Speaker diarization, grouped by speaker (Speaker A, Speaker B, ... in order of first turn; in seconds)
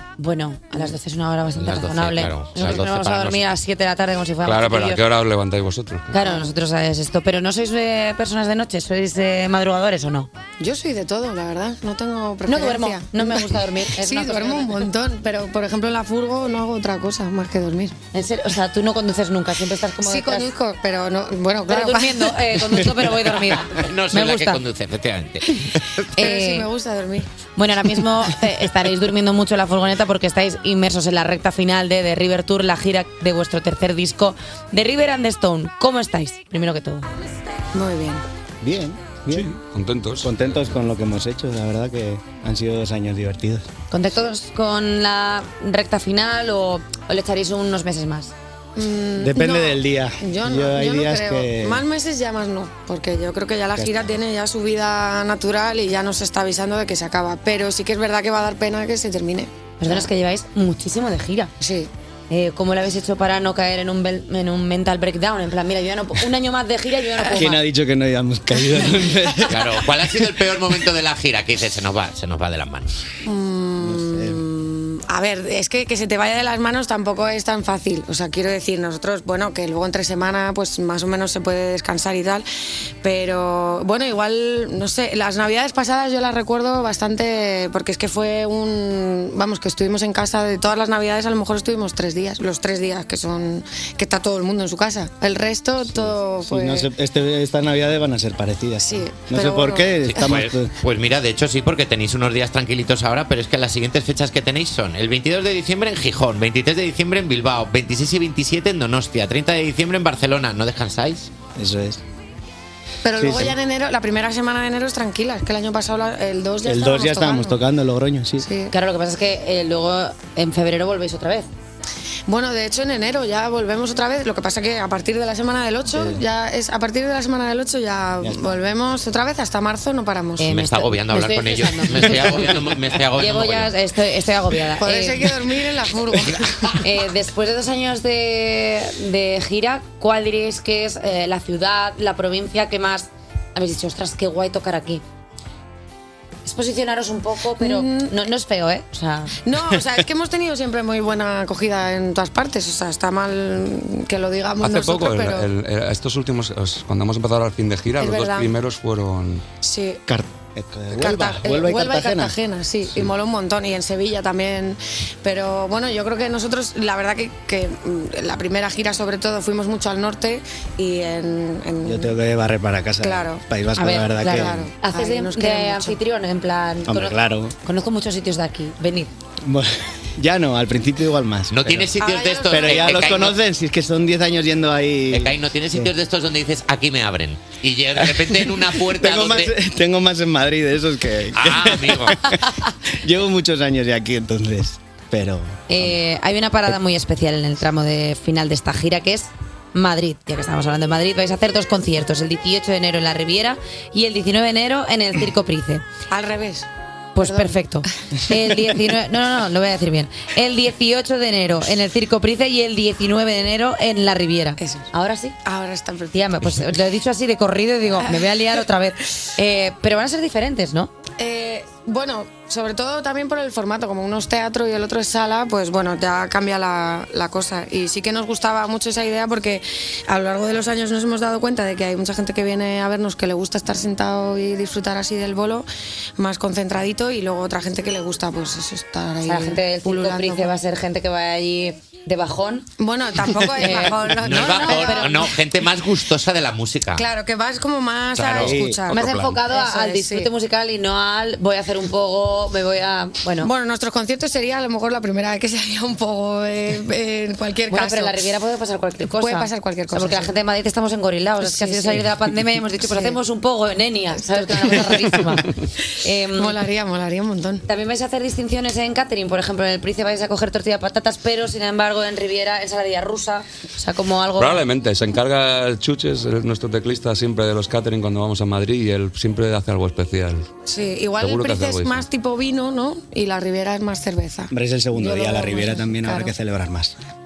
Speaker A: 0.2-5.0, 6.1-10.3, 12.5-14.8, 18.1-20.5, 21.7-24.6, 26.1-26.7, 27.6-37.0, 43.9-48.3, 59.8-61.5, 62.3-67.6, 118.7-121.5, 130.4-132.5, 133.2-135.3, 136.8-145.0, 146.4-149.3, 173.8-179.1, 195.7-205.8, 207.1-215.3, 216.1-220.9, 239.2-242.7, 243.6-245.3, 248.9-253.5, 257.7-265.5, 266.0-266.6, 267.6-274.6
Speaker B: 1.6-3.5, 23.8-25.6, 69.5-73.0, 100.0-111.3, 130.4-133.7, 181.5-183.4, 185.1-189.5, 191.3-192.2, 244.2-247.0, 248.2-249.3
Speaker C: 4.4-6.1, 39.3-40.3, 154.6-159.4, 274.4-280.5, 281.2-282.1
Speaker D: 6.2-6.5, 10.6-17.9, 20.0-22.4, 26.2-27.3, 37.7-38.2, 48.8-60.1, 61.6-61.9, 73.2-82.5, 83.0-96.9, 98.8-99.9, 113.0-117.6, 118.4-118.7, 122.3-130.4, 134.8-136.4, 147.6-148.1, 149.4-155.5, 157.9-158.5, 159.6-160.0, 160.9-172.1, 173.0-173.4, 174.3-176.0, 182.0-183.0, 206.1-206.7, 207.2-207.5, 214.6-214.9, 215.4-216.2, 218.0-218.3, 221.2-235.7, 236.2-240.5, 242.8-245.3, 246.9-250.3, 253.4-258.2, 259.1-260.3, 261.4-262.1, 262.8-263.2, 264.1-265.4, 266.3-267.6, 280.6-286.3
Speaker E: 38.6-39.6, 40.2-43.6, 49.2-51.8, 53.8-54.1, 67.3-70.2, 73.8-74.4, 95.8-100.7, 111.5-112.0, 113.2-113.5, 116.6-118.5, 125.9-126.2, 128.2-128.5, 160.1-162.4, 171.8-174.7, 176.8-177.5, 179.4-185.9, 188.1-192.5, 193.0-196.0, 248.4-248.8, 284.5-286.9